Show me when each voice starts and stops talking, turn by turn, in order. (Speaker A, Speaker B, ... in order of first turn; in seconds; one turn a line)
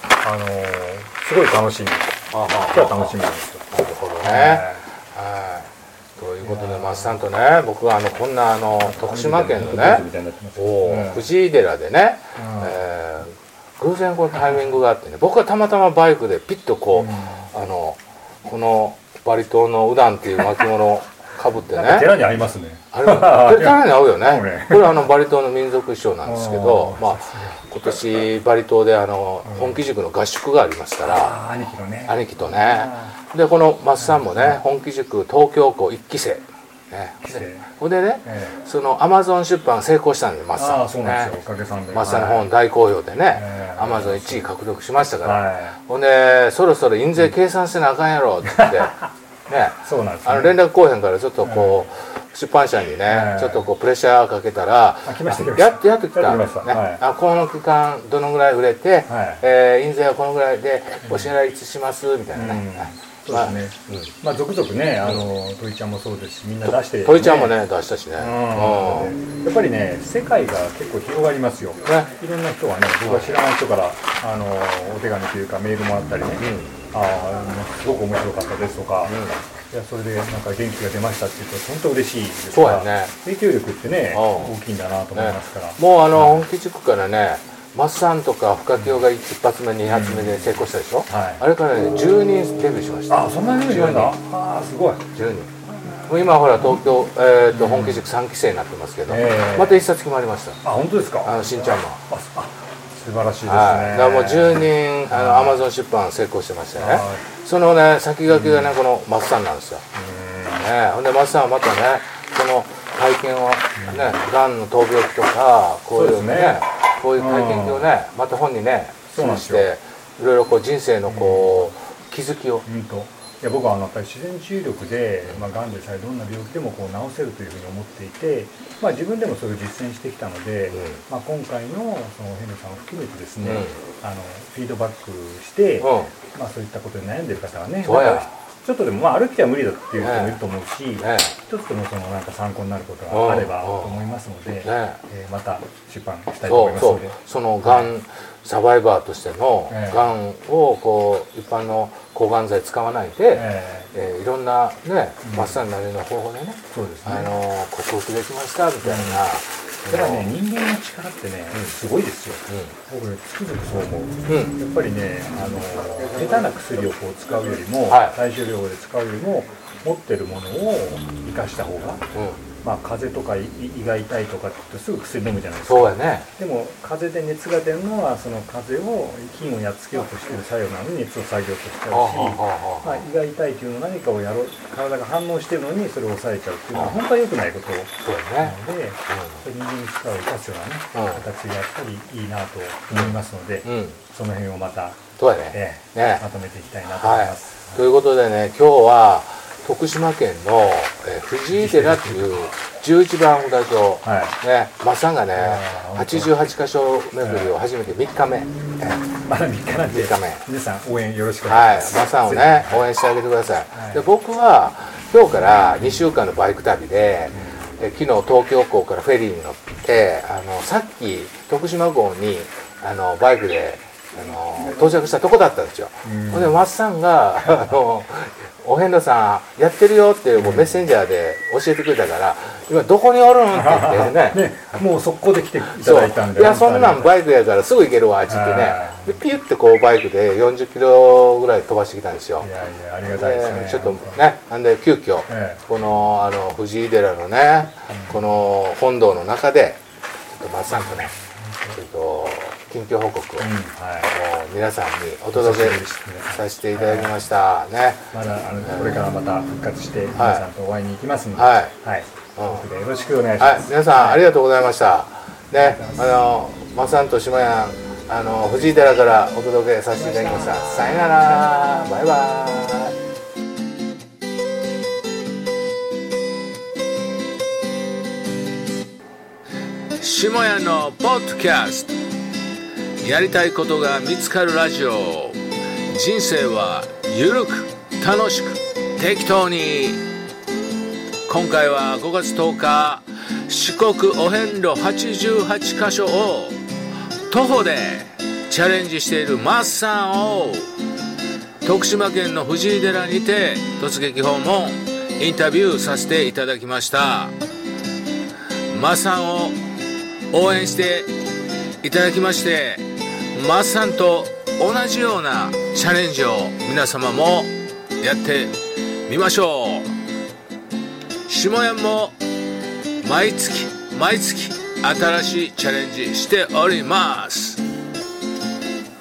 Speaker A: 0.2-2.1
Speaker B: 2.3-3.2
Speaker A: 2.7-4.8
Speaker B: 3.7-22.1
Speaker A: 6.4-7.2
Speaker A: 8.8-11.2
Speaker A: 12.4-12.8
Speaker A: 16.9-17.5
Speaker A: 20.4-20.7
Speaker A: 21.7-25.0
Speaker B: 22.9-31.3
Speaker A: 26.2-27.7
Speaker A: 29.4-29.8
Speaker A: 31.0-33.1
Speaker B: 32.1-41.4
Speaker A: 34.0-34.6
Speaker A: 37.3-37.7
Speaker A: 38.2-38.6
Speaker A: 40.5-42.5
Speaker B: 41.9-48.9
Speaker A: 43.3-44.5
Speaker A: 45.2-45.8
Speaker A: 48.5-49.0
Speaker B: 49.5-64.1
Speaker A: 49.8-50.5
Speaker A: 51.4-51.8
Speaker A: 53.1-53.7
Speaker A: 55.0-57.0
Speaker A: 59.1-59.4
Speaker A: 62.3-67.5
Speaker B: 67.0-69.1
Speaker A: 68.2-79.2
Speaker B: 71.9-72.1
Speaker B: 73.0-73.4
Speaker B: 76.4-76.8
Speaker B: 79.0-79.4
Speaker A: 79.7-86.4
Speaker B: 82.5-83.1
Speaker B: 84.1-84.5
Speaker B: 85.2-94.2
Speaker A: 89.9-90.4
Speaker A: 91.1-91.4
Speaker A: 93.1-95.1
Speaker B: 95.1-95.5
Speaker B: 96.1-100.6
Speaker A: 97.5-98.0
Speaker A: 99.1-99.8
Speaker A: 100.6-105.6
Speaker B: 101.2-102.0
Speaker B: 103.5-109.8
Speaker A: 106.8-107.2
Speaker A: 108.3-108.7
Speaker A: 110.0-110.7
Speaker B: 110.5-122.7
Speaker A: 113.8-114.2
Speaker A: 116.0-116.6
Speaker A: 117.2-117.9
Speaker A: 119.2-119.7
Speaker A: 121.1-121.7
Speaker A: 122.7-147.9
Speaker B: 130.7-131.0
Speaker B: 133.4-133.8
Speaker B: 135.8-136.1
Speaker B: 137.8-138.3
Speaker B: 140.0-140.4
Speaker B: 141.0-141.3
Speaker B: 143.1-145.0
Speaker B: 146.5-160.3
Speaker A: 149.7-150.0
Speaker A: 153.3-153.9
Speaker A: 155.2-155.6
Speaker A: 156.7-157.3
Speaker A: 158.8-159.2
Speaker A: 159.9-172.0
Speaker B: 162.5-162.7
Speaker B: 164.3-164.6
Speaker B: 167.9-168.2
Speaker B: 172.1-172.4
Speaker A: 172.6-195.0
Speaker B: 175.7-176.3
Speaker B: 181.9-183.0
Speaker B: 188.0-188.6
Speaker B: 189.1-189.4
Speaker B: 190.9-191.2
Speaker B: 192.9-194.0
Speaker B: 195.2-196.2
Speaker A: 195.5-197.8
Speaker B: 196.9-209.1
Speaker A: 201.6-202.5
Speaker A: 204.1-204.4
Speaker A: 205.3-206.3
Speaker A: 207.2-207.5
Speaker A: 209.1-212.9
Speaker B: 209.9-210.4
Speaker B: 211.5-234.4
Speaker A: 213.7-214.0
Speaker A: 226.1-226.6
Speaker A: 230.4-230.7
Speaker A: 233.5-237.1
Speaker B: 235.7-242.5
Speaker A: 238.3-239.2
Speaker A: 242.4-244.2
Speaker B: 243.1-249.8
Speaker A: 245.3-245.6
Speaker A: 247.9-248.2
Speaker B: 250.3-251.1
Speaker A: 250.7-251.8
Speaker B: 251.7-253.5
Speaker A: 253.4-254.1
Speaker B: 254.0-258.1
Speaker A: 255.3-257.1
Speaker A: 258.1-264.2
Speaker B: 258.6-259.1
Speaker B: 260.1-260.5
Speaker B: 261.4-261.7
Speaker B: 262.4-262.7
Speaker B: 263.4-272.9
Speaker A: 265.5-266.0
Speaker A: 270.2-270.9
Speaker B: 280.0-282.0
Speaker B: 283.0-290.0
Speaker B: 291.3-296.6
Speaker B: 297.3-300.7
Speaker B: 301.6-307.4
Speaker B: 308.7-309.6
Speaker B: 310.3-311.1
Speaker B: 311.8-319.9
Speaker B: 321.3-322.2
Speaker B: 323.0-327.6